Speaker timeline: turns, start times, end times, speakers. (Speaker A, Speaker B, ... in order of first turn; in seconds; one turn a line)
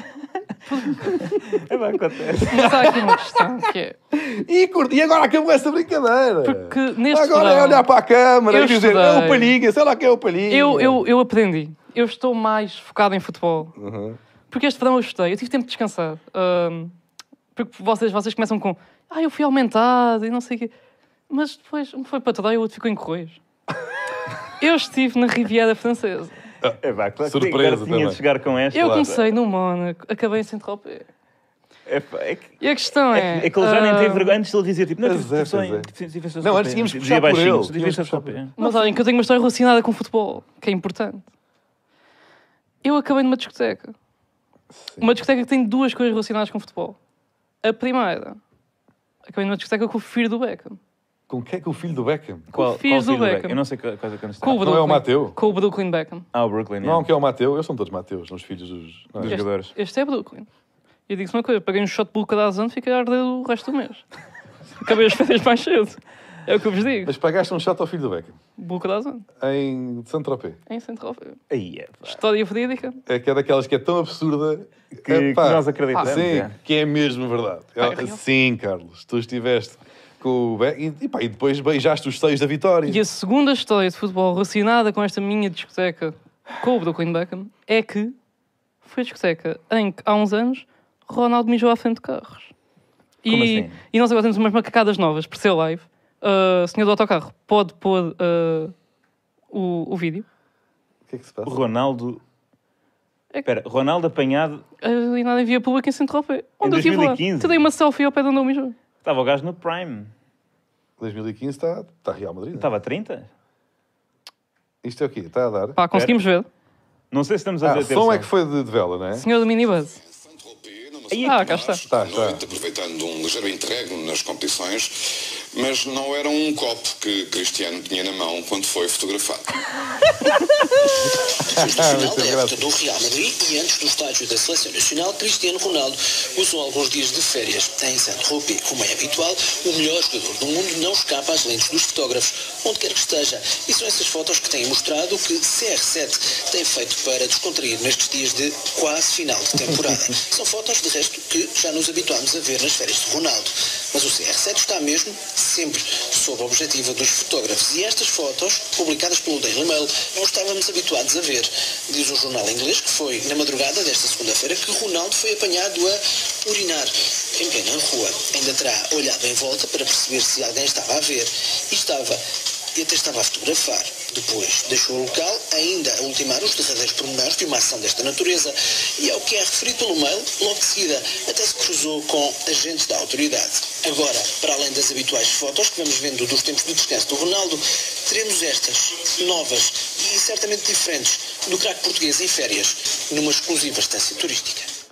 Speaker A: 0.7-1.0
Speaker B: 0.9-2.9
Speaker A: 2.5-4.0
Speaker C: 2.5-3.2
Speaker C: 4.1-11.0
Speaker A: 6.4-7.9
Speaker A: 8.5-9.6
Speaker A: 10.5-13.7
Speaker C: 13.8-14.2
Speaker A: 14.5-16.9
Speaker A: 17.6-20.7
Speaker A: 21.3-23.4
Speaker A: 24.6-26.3
Speaker C: 26.6-28.2
Speaker B: 26.8-29.3
Speaker A: 28.7-31.1
Speaker B: 31.9-32.5
Speaker A: 32.6-34.4
Speaker B: 33.1-38.7
Speaker C: 35.0-38.4
Speaker A: 38.6-41.3
Speaker A: 42.8-44.0
Speaker C: 44.7-45.1
Speaker A: 45.0-47.0
Speaker A: 47.6-48.4
Speaker A: 49.3-50.8
Speaker C: 51.3-52.5
Speaker B: 52.5-54.7
Speaker A: 52.5-53.6
Speaker A: 54.4-56.3
Speaker C: 54.6-55.4
Speaker B: 56.3-57.1
Speaker C: 56.8-59.4
Speaker B: 59.2-59.7
Speaker A: 59.2-60.5
Speaker A: 61.1-64.0
Speaker A: 64.8-67.1
Speaker C: 67.0-68.4
Speaker A: 68.6-69.3
Speaker C: 69.4-70.6
Speaker A: 70.7-71.4
Speaker B: 71.5-72.2
Speaker A: 72.0-73.0
Speaker C: 73.1-83.0
Speaker B: 74.9-76.6
Speaker A: 77.8-78.2
Speaker A: 82.9-88.2
Speaker A: 88.8-92.5
Speaker A: 93.2-98.7
Speaker B: 93.3-93.8
Speaker A: 99.5-100.2
Speaker C: 101.1-101.6
Speaker B: 101.5-102.2
Speaker B: 103.4-104.6
Speaker A: 104.8-108.8
Speaker B: 106.6-107.7
Speaker B: 109.0-110.1
Speaker C: 111.0-112.7
Speaker B: 112.5-113.3
Speaker C: 114.8-115.8
Speaker A: 115.8-116.5
Speaker B: 115.9-116.2
Speaker B: 117.1-118.3
Speaker C: 117.6-119.3
Speaker A: 119.2-120.0
Speaker D: 119.7-124.9
Speaker B: 121.1-121.7
Speaker A: 121.2-121.8
Speaker C: 121.9-122.5
Speaker D: 125.5-129.6
Speaker C: 131.4-132.6
Speaker E: 131.4-172.2
Speaker E: 172.8-194.7